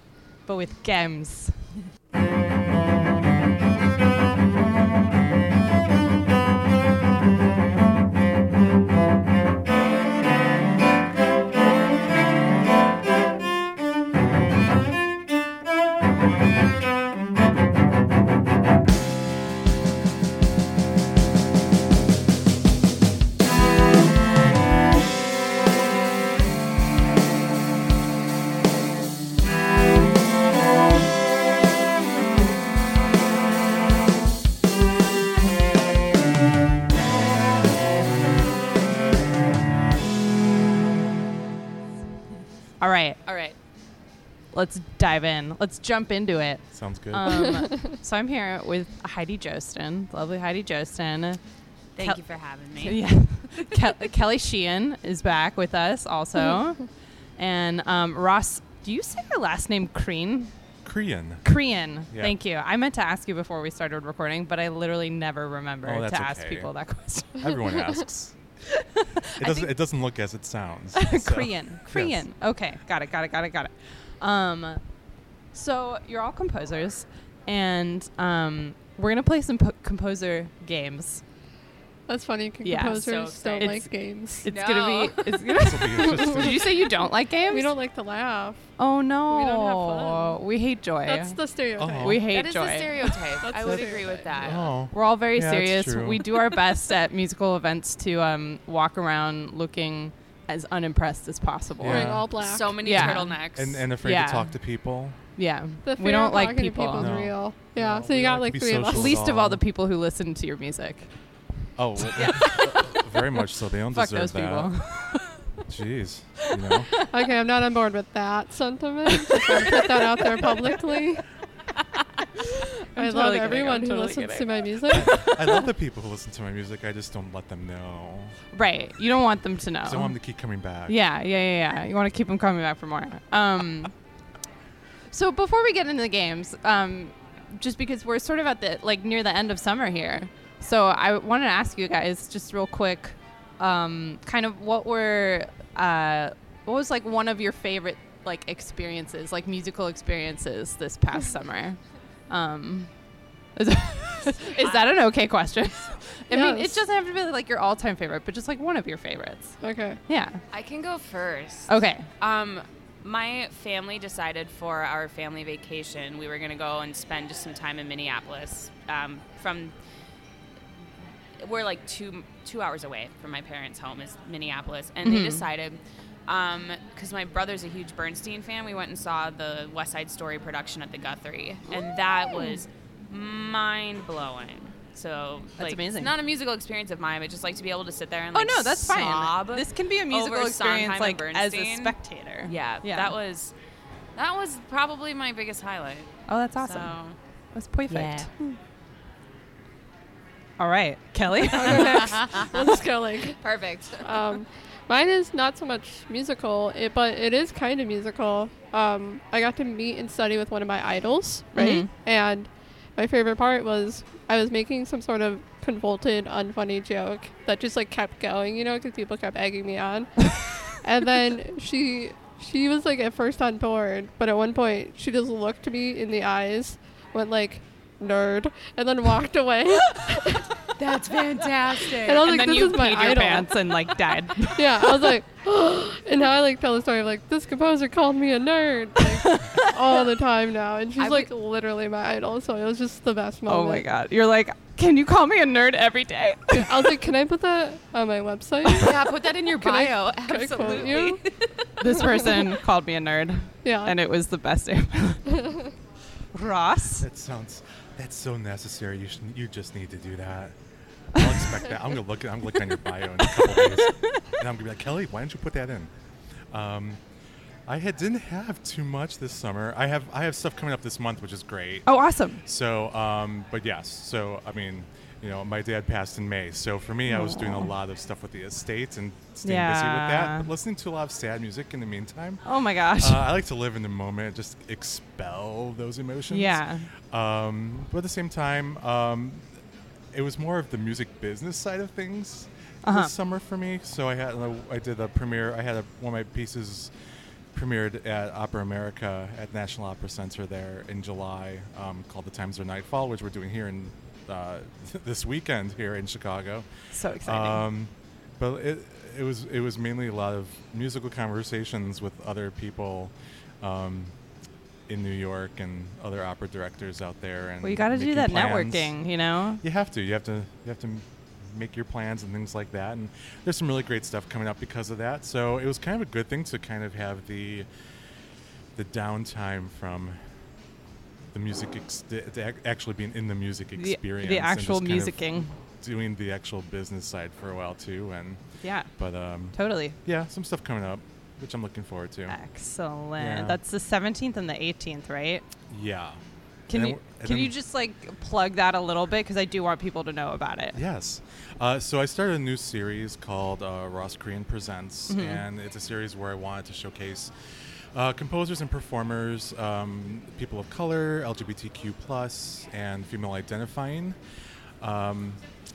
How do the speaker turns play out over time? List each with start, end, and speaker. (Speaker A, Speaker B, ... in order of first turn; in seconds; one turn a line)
Speaker A: 0.5-1.8
Speaker A: 42.8-43.2
Speaker B: 43.2-43.5
Speaker A: 44.5-51.4
Speaker C: 46.7-47.3
Speaker D: 47.3-47.9
Speaker B: 52.0-53.8
Speaker A: 52.8-56.9
Speaker A: 57.4-60.5
Speaker C: 60.8-61.4
Speaker A: 61.4-67.7
Speaker C: 62.1-62.3
Speaker C: 65.8-66.7
Speaker C: 67.4-68.3
Speaker A: 68.7-69.7
Speaker C: 69.4-72.2
Speaker A: 70.9-74.8
Speaker A: 75.5-81.2
Speaker D: 82.1-84.5
Speaker A: 82.6-83.1
Speaker B: 83.0-83.8
Speaker A: 83.6-83.9
Speaker A: 84.4-87.7
Speaker B: 84.5-85.3
Speaker C: 85.5-86.7
Speaker D: 86.0-86.6
Speaker D: 87.5-88.6
Speaker A: 88.8-91.4
Speaker D: 89.3-90.4
Speaker D: 91.0-92.2
Speaker C: 91.8-92.3
Speaker A: 92.0-92.9
Speaker B: 92.3-94.7
Speaker D: 93.4-94.3
Speaker C: 93.6-96.3
Speaker A: 94.9-102.2
Speaker C: 101.8-102.3
Speaker D: 101.8-102.8
Speaker B: 102.3-103.9
Speaker A: 102.8-103.4
Speaker C: 103.0-105.2
Speaker A: 104.0-104.5
Speaker A: 105.4-107.2
Speaker D: 105.8-109.1
Speaker C: 107.0-109.6
Speaker A: 108.9-111.1
Speaker C: 111.8-114.8
Speaker A: 112.1-113.0
Speaker A: 113.9-115.4
Speaker C: 115.7-116.9
Speaker A: 116.4-116.8
Speaker D: 117.0-121.2
Speaker A: 119.2-119.8
Speaker A: 120.4-120.7
Speaker A: 122.4-125.6
Speaker D: 123.0-125.2
Speaker C: 124.9-128.4
Speaker A: 128.5-130.2
Speaker C: 129.8-131.0
Speaker A: 130.9-133.9
Speaker A: 135.1-151.8
Speaker A: 152.3-152.9
Speaker A: 153.6-159.6
Speaker B: 154.5-154.9
Speaker D: 156.3-156.8
Speaker D: 159.6-160.0
Speaker A: 160.1-160.4
Speaker B: 160.5-169.7
Speaker A: 161.7-162.1
Speaker B: 171.4-193.5
Speaker A: 175.1-175.4
Speaker A: 185.6-186.1
Speaker A: 188.3-193.1
Speaker B: 194.2-197.2
Speaker A: 196.3-196.9
Speaker A: 197.5-198.3
Speaker B: 197.9-198.3
Speaker A: 200.6-202.2
Speaker D: 201.5-203.4
Speaker B: 201.7-202.8
Speaker B: 203.4-204.3
Speaker D: 204.0-230.5
Speaker A: 211.6-211.9
Speaker B: 230.8-233.2
Speaker D: 231.9-233.9
Speaker A: 232.2-235.1
Speaker D: 234.4-243.9
Speaker A: 239.0-239.7
Speaker B: 241.0-241.3
Speaker A: 243.5-246.9
Speaker D: 246.5-251.2
Speaker B: 248.7-252.3
Speaker A: 251.8-255.4
Speaker D: 251.9-252.3
Speaker D: 253.6-254.0
Speaker D: 255.4-255.7
Speaker A: 256.3-257.1
Speaker C: 257.0-260.5
Speaker C: 261.1-265.9
Speaker A: 263.2-264.3
Speaker C: 266.5-267.0
Speaker C: 267.7-271.9
Speaker A: 271.9-272.4
Speaker C: 272.4-282.4
Speaker A: 277.1-277.7
Speaker A: 279.4-280.5
Speaker A: 282.4-283.2
Speaker C: 282.9-289.5
Speaker A: 286.3-286.9
Speaker C: 290.1-296.9
Speaker A: 292.8-293.1
Speaker C: 297.5-306.7
Speaker A: 306.9-307.6
Speaker C: 307.2-314.1
Speaker C: 314.9-319.0
Speaker A: 317.6-319.6
Speaker C: 319.6-327.7
Speaker C: 328.8-330.2
Speaker C: 331.3-338.4
Speaker A: 333.8-335.5
Speaker A: 338.6-338.9
Speaker C: 339.0-342.4
Speaker A: 339.5-340.0
Speaker A: 342.3-345.4
Speaker C: 343.2-343.6
Speaker C: 345.7-346.2
Speaker A: 346.7-350.8
Speaker C: 346.7-347.5
Speaker C: 350.8-357.3
Speaker A: 355.1-355.4
Speaker C: 357.9-364.2
Speaker C: 364.8-365.4